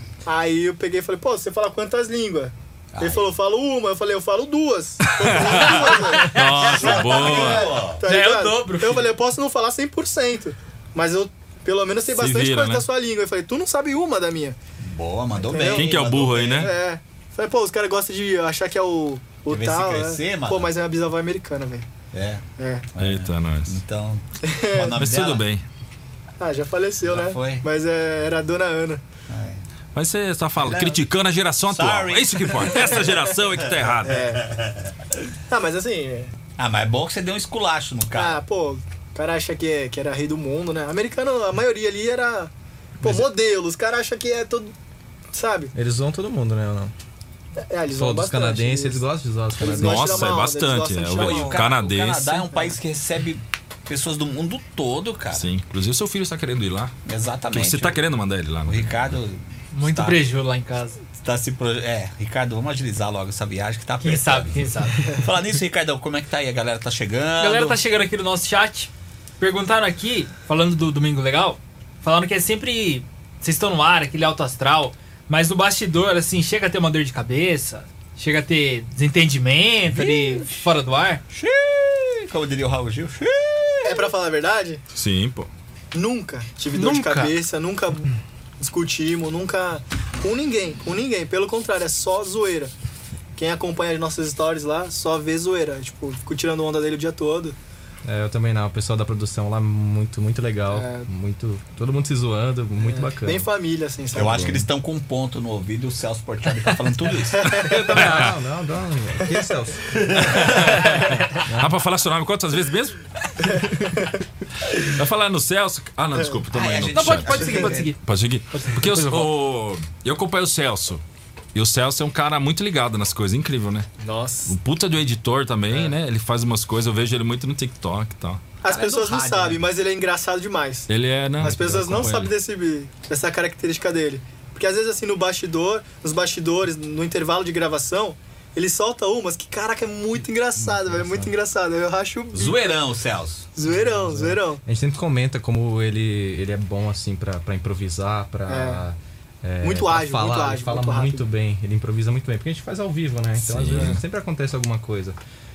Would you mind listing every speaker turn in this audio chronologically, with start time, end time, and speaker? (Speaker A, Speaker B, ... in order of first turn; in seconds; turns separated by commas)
Speaker A: 0.2-14.6, Speaker B: 2.9-3.2, Speaker C: 5.0-7.7, Speaker D: 6.2-6.6, Speaker B: 6.5-8.0, Speaker D: 8.0-9.1, Speaker C: 12.1-12.8, Speaker B: 14.8-16.7, Speaker A: 15.4-15.9, Speaker C: 15.6-16.7, Speaker A: 16.6-21.9, Speaker B: 19.5-20.7, Speaker B: 22.1-22.4, Speaker A: 22.6-22.9, Speaker B: 22.9-25.4, Speaker C: 23.0-23.8, Speaker A: 24.4-25.0, Speaker C: 24.9-25.6, Speaker A: 26.4-29.0, Speaker B: 27.1-27.6, Speaker B: 29.3-29.6, Speaker C: 29.9-34.2, Speaker B: 31.7-33.0, Speaker B: 33.6-34.9, Speaker A: 34.0-34.5, Speaker A: 35.5-36.3, Speaker B: 36.6-38.4, Speaker A: 38.1-44.7, Speaker A: 45.3-45.7, Speaker E: 45.7-46.9, Speaker A: 47.5-49.0, Speaker E: 47.9-50.3, Speaker A: 49.6-51.6, Speaker C: 49.7-52.5, Speaker B: 51.1-55.5, Speaker C: 55.3-56.9, Speaker B: 57.0-58.0, Speaker C: 57.5-59.2, Speaker B: 58.6-60.3, Speaker D: 59.7-61.0, Speaker B: 61.1-67.8, Speaker D: 64.0-65.2, Speaker D: 67.4-81.2, Speaker B: 79.9-80.7, Speaker B: 81.3-84.1, Speaker A: 83.8-84.8, Speaker C: 84.9-85.5, Speaker A: 85.9-92.7, Speaker D: 86.7-87.3, Speaker A: 93.3-97.5, Speaker E: 98.0-103.5, Speaker A: 100.7-101.1, Speaker A: 102.8-104.6, Speaker B: 104.1-107.7, Speaker E: 104.1-104.7, Speaker A: 107.4-108.0, Speaker E: 107.5-110.5, Speaker C: 107.9-108.3, Speaker B: 109.9-110.8, Speaker C: 110.1-113.7, Speaker E: 111.4-111.7, Speaker A: 113.5-114.1, Speaker C: 114.7-121.0, Speaker A: 116.2-116.4, Speaker B: 116.5-117.9, Speaker D: 116.9-118.0, Speaker C: 121.5-123.9, Speaker A: 124.0-124.5, Speaker C: 124.5-128.4, Speaker A: 128.6-142.6, Speaker B: 128.6-129.6, Speaker C: 130.9-132.3, Speaker E: 140.6-141.3, Speaker B: 142.3-143.5, Speaker A: 143.5-144.6, Speaker E: 143.9-155.2, Speaker A: 148.5-148.8, Speaker A: 149.6-151.3, Speaker C: 153.4-154.0